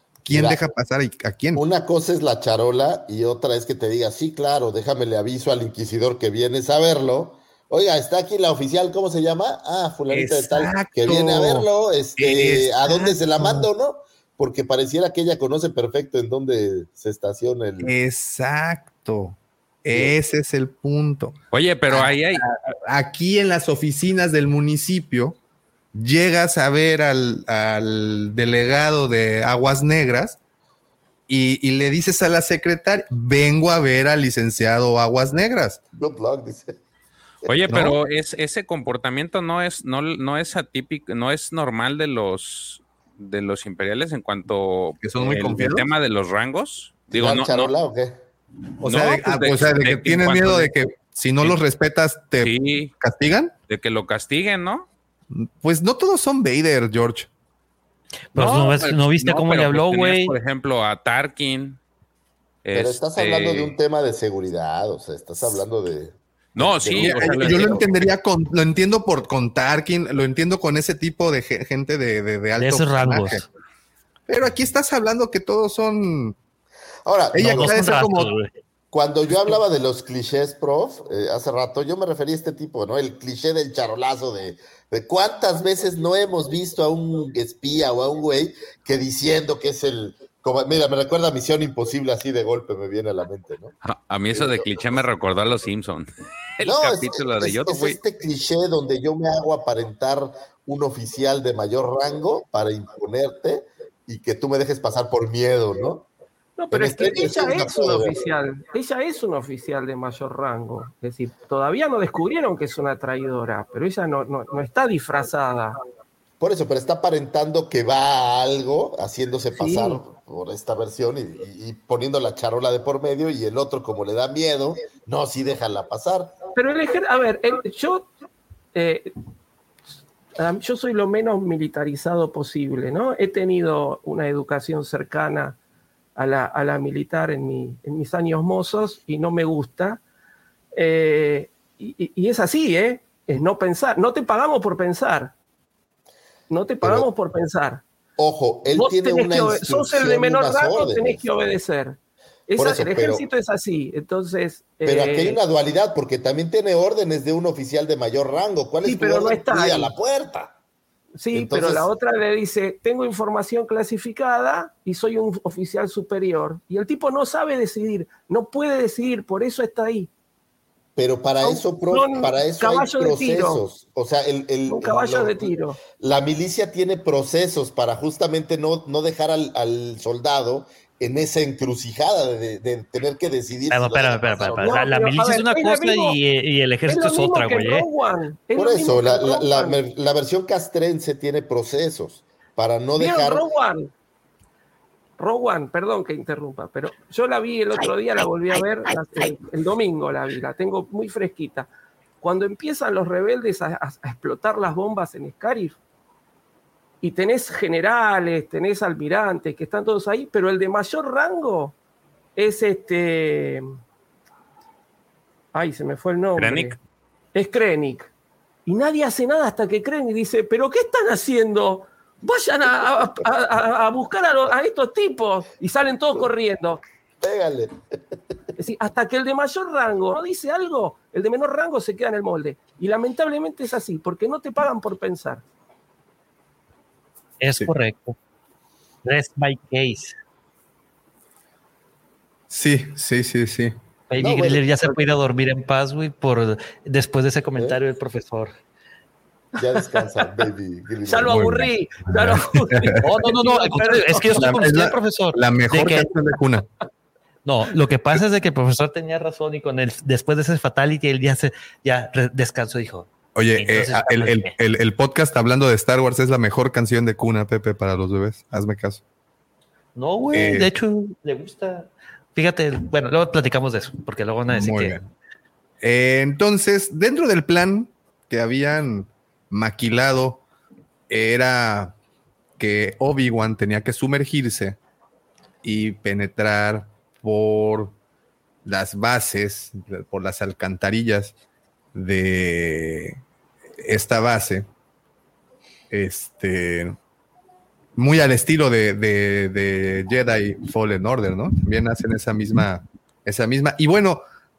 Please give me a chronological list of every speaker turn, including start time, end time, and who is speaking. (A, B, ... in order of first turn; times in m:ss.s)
0:00.2-0:01.6 A
0:00.3-0:00.6 B
0:01.6-0:17.9 B
0:10.1-0:11.7 A
0:12.2-0:13.7 A
0:17.8-0:21.4 A
0:21.5-0:22.4 C
0:21.9-0:25.4 A
0:25.9-0:30.4 A
0:31.3-0:35.8 A
0:35.9-0:36.8 B
0:37.5-0:47.7 C
0:37.7-0:38.0 A
0:45.0-0:45.9 A
0:47.1-0:48.2 B
0:48.8-0:53.5 A
0:48.8-0:50.7 C
0:52.4-0:52.9 C
0:53.7-0:54.9 C
0:55.3-0:57.3 A
0:58.3-1:00.4 D
0:58.4-1:01.8 C
1:02.6-1:03.8 C
1:02.7-1:07.9 B
1:06.6-1:07.9 C
1:07.0-1:13.5 A
1:12.6-1:13.5 D
1:14.3-1:16.4 A
1:17.0-1:17.8 B
1:17.3-1:18.3 A
1:17.4-1:18.5 D
1:18.9-1:33.7 B
1:33.8-1:36.1 C
1:34.3-1:34.7 B
1:36.6-1:38.0 C
1:36.6-1:46.1 B
1:46.6-1:55.8 E
1:46.7-1:48.2 B
1:56.4-2:06.4 B
1:59.6-2:00.0 E
2:06.6-2:08.1 E
2:08.7-2:09.1 E
2:10.4-2:15.6 E
2:16.2-2:20.0 E
2:20.7-2:25.3 E
2:26.5-2:27.8 E
2:26.8-2:27.1 B
2:28.2-2:31.2 B
2:28.8-2:32.0 E
2:32.5-2:35.4 E
2:32.6-2:33.3 B
2:34.8-2:40.6 B
2:38.8-2:39.9 E
2:41.2-2:50.1 E
2:41.3-2:41.9 B
2:51.0-3:04.9 B
2:51.4-2:53.6 E
2:54.7-2:55.8 E
3:03.7-3:07.9 D
3:04.6-3:06.2 E
3:06.9-3:09.8 E
3:08.6-3:13.4 B
3:13.0-3:13.9 E
3:15.2-3:21.7 E
3:22.2-3:25.8 E
3:27.0-3:31.8 E
3:32.4-3:33.6 E
3:35.5-3:36.8 E
3:36.4-3:36.8 C
3:37.3-3:38.1 E
3:38.7-3:46.8 E
3:47.2-3:47.7 B
3:48.6-3:55.4 E
3:57.4-3:58.2 D
3:59.0-4:00.2 D
4:02.5-4:03.8 A
4:04.1-4:08.5 D
4:04.2-4:05.0 B
4:09.6-4:11.7 B
4:09.6-4:10.2 E
4:11.0-4:14.7 E
4:11.3-4:13.0 A
4:13.0-4:16.1 D
4:14.4-4:16.7 A
4:17.4-4:24.5 D
4:23.4-4:29.0 A
4:30.0-4:35.0 D
4:30.3-4:30.7 A
4:34.5-4:35.0 A
4:35.8-4:40.4 A
4:41.1-4:42.0 A
4:42.6-4:44.8 A
4:45.6-4:48.0 A
4:48.6-4:51.4 A
4:51.9-4:53.2 A
4:53.8-4:54.7 A
4:55.9-4:57.0 A
4:58.0-5:04.2 A